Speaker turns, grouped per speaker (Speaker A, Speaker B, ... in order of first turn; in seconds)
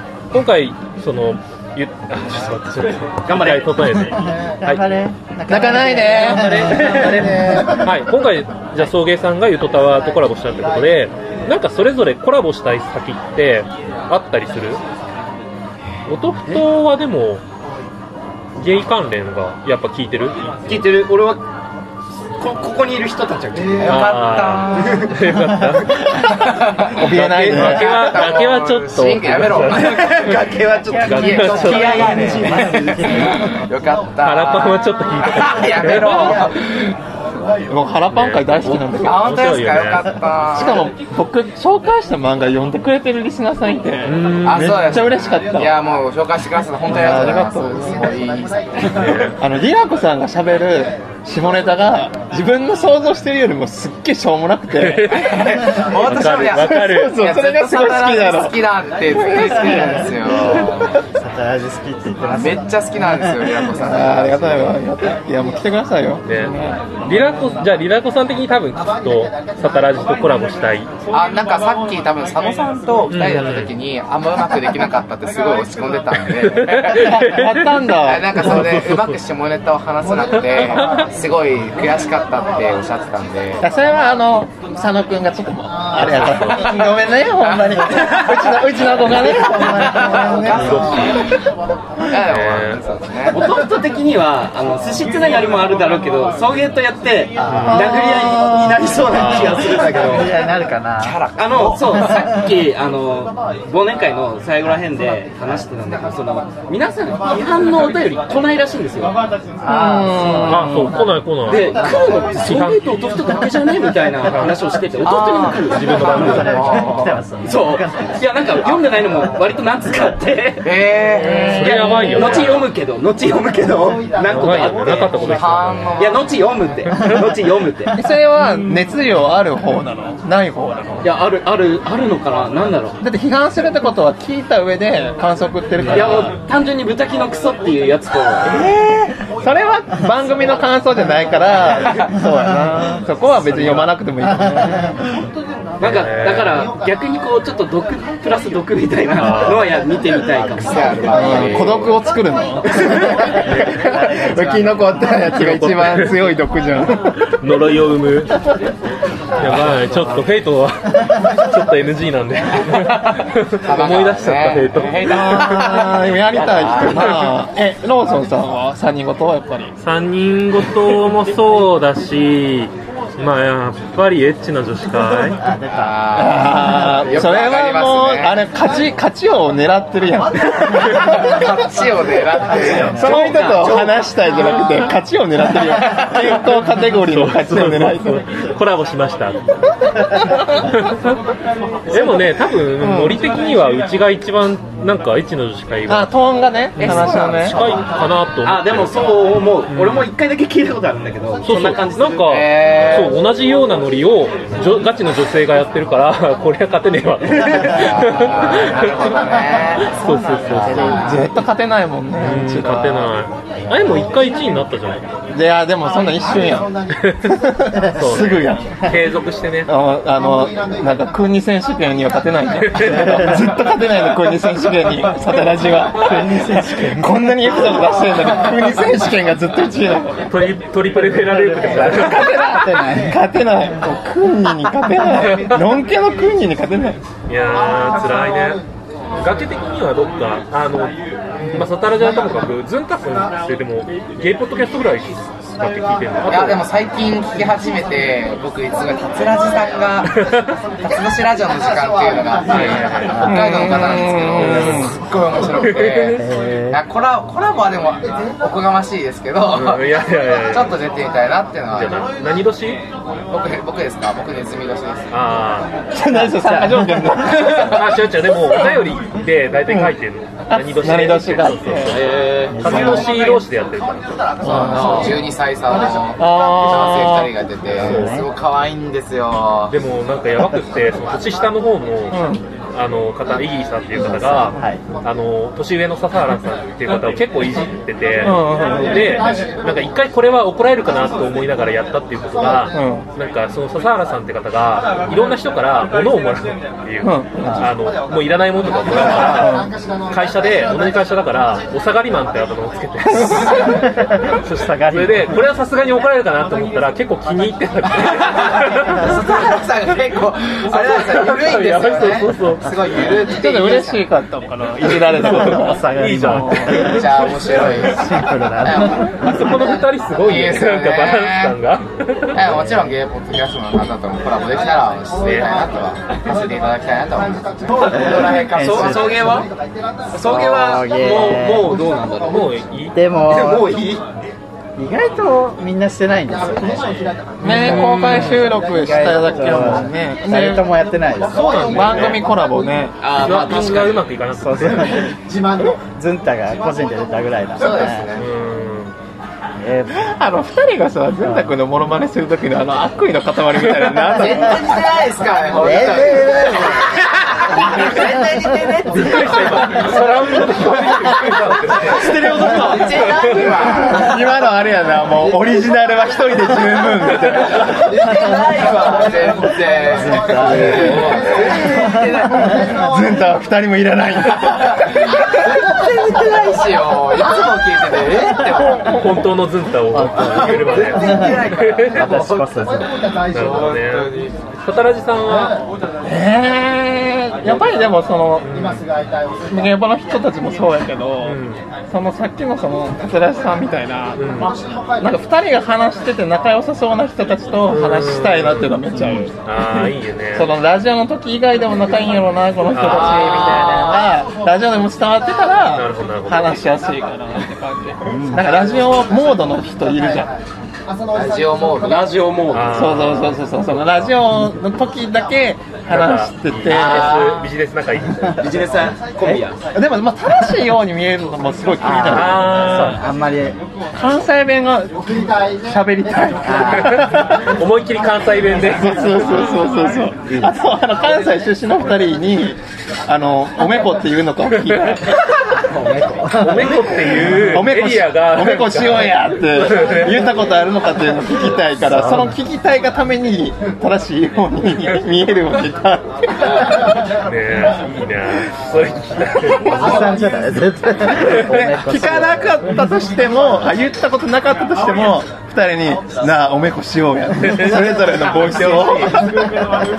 Speaker A: 0.3-4.8, 7.8-14.8, 16.1-17.4, 18.6-20.6, 23.9-26.4, 27.2-30.2, 31.0-32.5, 34.2-36.5, 38.1-40.1, 44.0-45.0, 48.8-49.4, 54.7-57.4, 66.3-70.9, 73.1-73.7, 76.3-79.2, 80.5-81.1, 86.0-86.7, 90.5-91.2, 92.3-92.8, 97.5-97.9, 99.1-99.8, 110.5-112.8, 114.2-114.6, 115.5-117.0, 121.5-122.7, 124.3-126.0, 135.8-136.2, 145.8-146.7, 149.1-149.7, 155.4-156.2, 157.3-158.5, 159.4-165.5, 166.9-167.2, 169.8-175.4, 186.0-186.3, 187.0-189.4, 190.7-191.1, 191.9-196.1, 196.8-200.1, 201.4-209.3, 209.9-211.0, 212.2-215.1, 217.0-217.3, 217.9-219.7, 222.6-223.5, 230.3-232.3, 235.2-235.6, 237.3-238.6, 239.2-240.9, 241.5-246.7, 250.2-250.5, 252.5-253.3, 254.3-254.9, 255.5-256.2, 259.5-260.8, 261.7-262.8, 265.1-265.7, 267.4-275.1, 277.8-278.1, 279.7-282.2, 282.7-303.8, 304.9-309.2, 310.7-312.7, 314.9-317.8, 319.0-322.6, 325.2-325.5, 332.2-332.9, 337.4-338.5, 341.3-342.2, 343.2-345.1, 348.1-348.9, 358.9-363.7, 370.7-371.2, 378.8-382.1, 383.3-385.6, 388.4-388.9, 391.2-391.6, 394.1-394.6, 397.7-398.8, 399.4-400.5, 402.7-403.9, 405.7-406.5, 412.5-414.1, 415.9-418.7, 422.1-423.0, 426.7-429.6, 434.6-435.0, 436.3-440.2, 446.4-450.1, 457.4-459.2
Speaker B: 3.2-3.7, 6.2-7.5, 20.6-21.4, 22.4-24.0, 24.8-25.1, 27.1-27.7, 29.7-31.6, 32.6-33.2, 93.3-100.3, 101.3-109.1, 111.5-116.5, 117.4-120.8, 122.0-125.4, 126.0-128.0, 131.0-133.0, 135.9-138.7, 145.8-151.4, 183.0-184.0, 196.8-197.9, 198.4-202.3, 271.9-272.9, 328.6-329.5, 330.1-332.6, 333.2-334.0, 343.0-344.0, 357.8-359.7, 361.8-363.1, 411.8-412.8, 418.4-419.6
Speaker C: 4.1-7.6, 30.9-33.6, 61.1-63.4, 89.7-90.1, 97.4-97.8, 99.9-101.2, 102.0-102.2, 109.6-110.9, 116.1-118.2, 143.4-143.9, 144.5-144.9, 153.1-155.2, 175.4-177.3, 182.5-183.2, 210.5-211.2, 226.0-227.8, 231.1-233.2, 253.1-253.4, 256.2-256.8, 266.0-267.0, 272.5-273.2, 277.8-278.3, 284.0-284.8, 303.6-305.4, 315.3-317.0, 317.7-319.1, 328.5-329.4, 330.2-331.7, 332.9-333.8, 334.8-341.7, 344.4-348.0, 349.6-350.1, 355.6-356.4, 369.9-371.1, 371.7-372.0, 381.0-381.3, 381.9-382.9, 398.9-399.3, 408.1-408.4, 421.8-423.6, 426.4-427.1, 435.6-437.2, 441.8-442.3, 449.6-452.6
Speaker D: 5.5-6.7, 26.9-27.9, 37.7-39.5, 40.5-45.8, 46.9-48.1, 49.3-55.2, 56.5-60.9, 63.7-67.2, 76.9-78.5, 83.6-90.9, 97.7-98.8, 109.7-110.9, 121.1-122.0, 128.0-131.1, 133.0-136.3, 138.4-144.8, 151.1-157.4, 165.0-169.7, 176.1-181.5, 182.5-188.2, 190.1-190.6, 192.8-193.2, 195.9-197.6, 210.5-213.1, 215.3-218.8, 219.7-230.3, 231.8-237.0, 253.2-254.9, 265.9-267.9, 268.5-268.7, 269.7-269.9, 270.5-272.0, 274.4-275.2, 276.2-277.3, 282.1-282.4, 288.2-289.3, 292.7-293.1, 297.0-297.7, 299.3-299.7, 303.2-303.5, 313.3-316.8, 337.4-340.7, 341.7-342.9, 349.9-354.6, 363.6-367.8, 372.6-375.2, 378.6-379.0, 379.9-380.3, 386.0-388.7, 389.5-391.4, 391.9-394.4, 395.0-410.3, 412.7-417.2, 419.3-422.7, 423.9-427.4, 428.7-435.2, 437.3-446.9, 451.1-459.3
Speaker E: 23.8-25.1, 26.2-30.4, 31.1-36.9, 38.9-40.9, 44.4-49.3, 55.1-61.0, 62.4-64.8, 71.1-77.2, 78.0-83.6, 86.5-86.9, 87.4-91.3, 92.0-93.4, 101.0-102.2, 115.0-117.2, 120.6-122.5, 125.1-126.6, 150.6-152.0, 153.6-156.2, 163.6-167.1, 175.7-178.4, 180.8-183.2, 202.2-203.2, 207.6-211.2, 246.3-250.2, 250.8-262.0, 263.3-265.1, 267.4-267.6, 274.4-279.7, 308.1-314.0, 316.7-319.3, 320.2-321.5, 322.3-329.2, 347.6-348.2, 354.1-360.0, 360.7-361.2, 361.7-364.2, 367.2-372.7, 374.4-379.0, 380.4-382.5, 383.3-384.3, 402.7-404.0, 411.1-412.2, 416.7-417.5